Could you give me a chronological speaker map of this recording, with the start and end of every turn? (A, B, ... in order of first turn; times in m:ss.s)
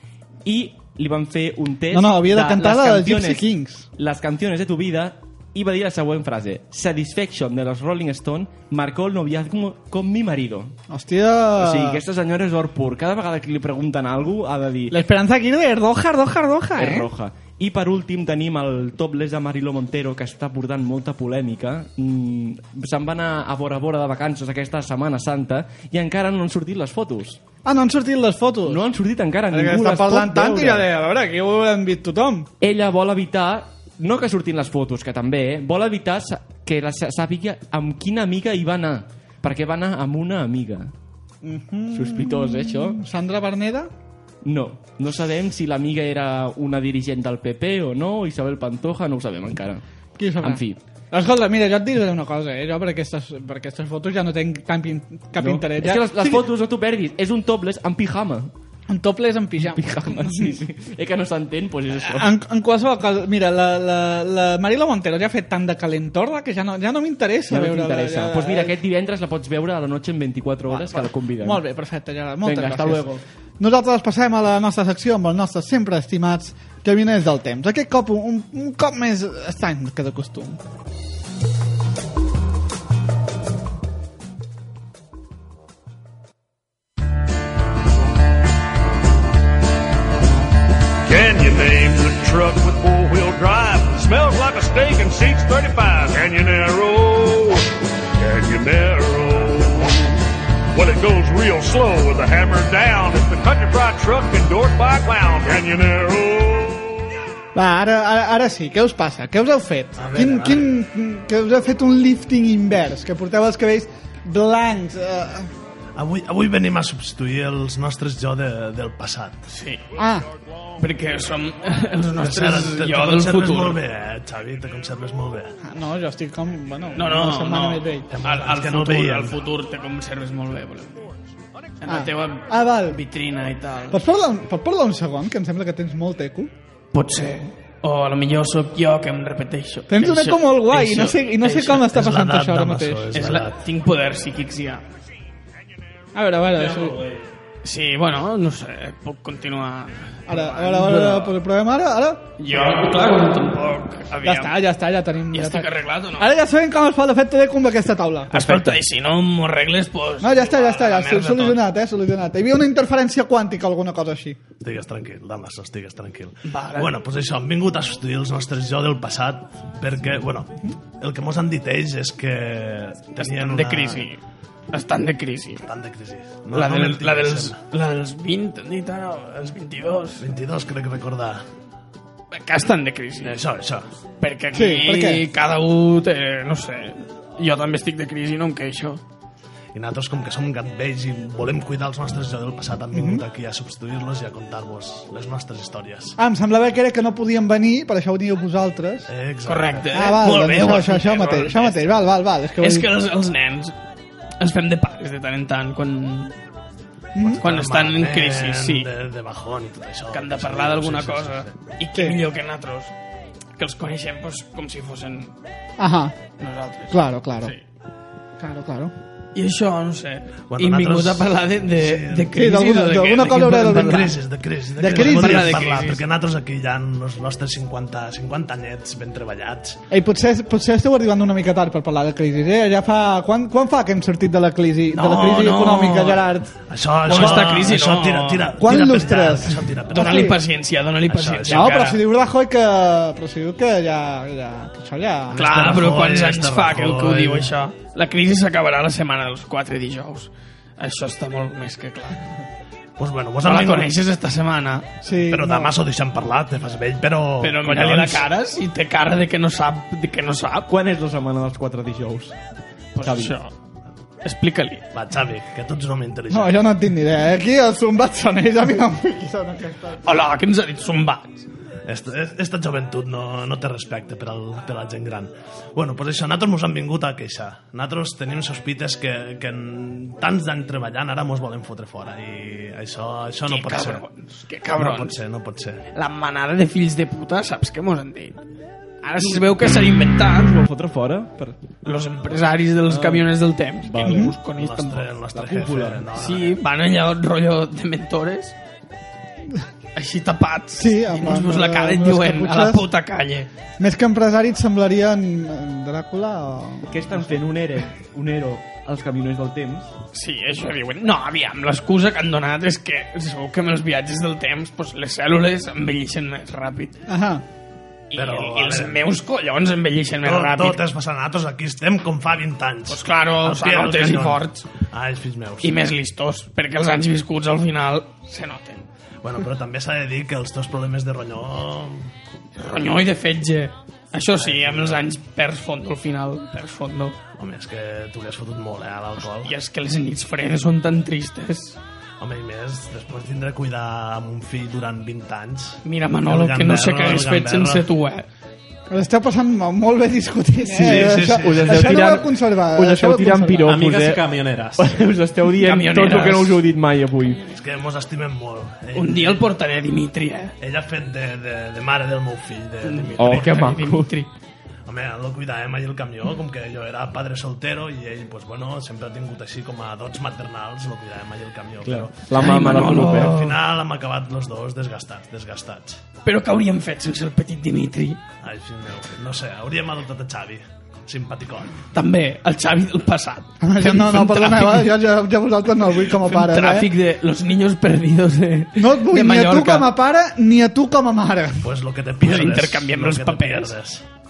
0:00.4-0:03.4 A
0:01.9-0:03.9 B
0:04.0-0:10.7 A
0:10.9-0:12.0 B
0:11.6-0:15.0 A
0:14.9-0:17.1 B
0:16.7-0:27.4 A
0:27.6-0:28.8 B
0:28.6-0:30.9 A
0:29.5-0:32.5 B
0:32.6-0:40.9 A
0:41.4-0:43.9 B
0:41.9-0:43.0 A
0:44.4-0:49.8 A
0:50.2-0:56.4 B
0:50.4-0:50.8 A
0:55.4-0:58.5 A
0:58.9-1:00.6 B
0:59.6-1:02.3 A
1:02.0-1:08.7 B
1:07.5-1:11.6 A
1:10.7-1:20.6 B
1:12.4-1:13.1 A
1:31.0-1:37.6 C
1:38.2-1:40.0 C
1:40.7-1:46.9 C
1:47.5-1:55.5 B
1:50.0-1:50.7 D
1:56.0-1:59.5 D
1:59.5-1:59.8 E
2:00.0-2:00.2 B
2:00.8-2:03.8 E
2:02.2-2:05.5 D
2:05.6-2:08.1 B
2:06.9-2:11.1 E
2:08.1-2:09.4 D
2:11.8-2:14.0 E
2:11.9-2:13.0 B
2:13.9-2:16.5 B
2:16.9-2:22.0 E
2:19.9-2:23.1 B
2:21.9-2:23.6 D
2:23.1-2:24.8 E
2:26.1-2:27.0 B
2:26.5-2:27.2 F
2:27.6-2:31.3 E
2:30.3-2:32.3 B
2:32.4-2:34.6 E
2:34.2-2:38.4 B
2:35.3-2:36.3 E
2:38.3-2:41.6 E
2:40.2-2:44.4 B
2:44.6-2:54.1 D
2:46.5-2:46.9 E
2:53.2-2:54.2 E
2:54.7-2:55.6 E
2:55.6-2:57.6 D
2:56.5-3:00.2 E
3:00.2-3:01.4 D
3:02.3-3:03.4 E
3:03.2-3:03.9 D
3:04.2-3:09.0 E
3:04.5-3:05.2 B
3:09.7-3:16.2 D
3:12.9-3:13.2 B
3:16.2-3:19.1 B
3:19.1-3:20.2 D
3:19.4-3:21.8 E
3:19.9-3:22.9 B
3:22.6-3:23.8 E
3:24.4-3:26.3 E
3:27.1-3:27.4 B
3:27.2-3:31.7 D
3:27.4-3:28.9 E
3:30.1-3:32.9 E
3:33.6-3:35.3 E
3:35.8-3:36.2 B
3:36.3-3:37.6 E
3:36.9-3:37.5 B
3:38.4-3:38.9 B
3:39.3-3:44.2 E
3:40.4-3:42.3 D
3:42.3-3:44.1 B
3:43.7-3:49.8 D
3:44.8-3:45.6 B
3:44.8-3:46.0 E
3:49.9-3:56.5 B
3:54.9-3:56.2 E
3:56.7-4:00.3 D
3:57.0-3:58.7 E
3:58.6-4:00.4 B
3:59.9-4:02.0 E
4:01.1-4:01.7 D
4:01.5-4:05.4 B
4:05.3-4:07.5 D
4:05.3-4:12.2 E
4:13.0-4:13.9 D
4:13.4-4:15.0 E
4:15.0-4:15.7 B
4:15.3-4:18.2 D
4:17.4-4:20.7 E
4:20.7-4:22.4 A
4:22.9-4:23.5 E
4:23.0-4:23.4 A
4:24.2-4:24.9 E
4:24.9-4:26.6 D
4:26.3-4:30.0 B
4:30.0-4:31.4 E
4:31.9-4:44.0 D
4:43.5-4:45.2 E
4:44.8-4:45.8 D
4:45.9-4:48.4 E
4:49.0-4:50.6 E
4:50.5-4:51.6 A
4:51.8-4:55.1 E
4:52.9-4:53.3 A
4:53.8-4:54.4 A
4:54.0-4:54.3 B
4:54.5-4:56.6 D
4:55.3-4:56.1 A
4:56.1-4:58.6 E
4:59.9-5:03.5 E
5:00.8-5:02.8 B
5:03.8-5:06.9 B
5:06.9-5:09.9 A
5:10.1-5:17.0 E
5:17.1-5:17.4 B
5:18.1-5:20.8 E
5:18.1-5:19.1 D
5:20.2-5:25.8 D
5:22.9-5:24.7 E
5:25.6-5:28.9 E
5:29.2-5:32.1 D
5:32.6-5:37.2 E
5:34.3-5:35.0 D
5:37.3-5:39.5 D
5:39.2-5:41.8 E
5:42.2-5:47.8 D
5:45.8-5:48.2 E
5:48.9-5:53.8 B
5:50.7-5:54.2 A
5:50.8-5:52.0 D
5:53.6-5:54.9 F
5:54.8-5:57.4 A
5:55.6-5:56.6 E
5:57.5-5:59.5 D
5:58.9-6:00.5 E
6:00.6-6:03.8 D
6:02.8-6:04.3 E
6:03.2-6:04.2 A
6:04.8-6:16.0 D
6:11.8-6:13.4 A
6:12.3-6:13.6 E
6:16.2-6:18.2 E
6:18.4-6:21.8 D
6:21.9-6:24.9 E
6:23.6-6:26.9 B
6:26.1-6:29.9 E
6:28.8-6:31.6 B
6:31.6-6:34.0 D
6:32.2-6:33.7 E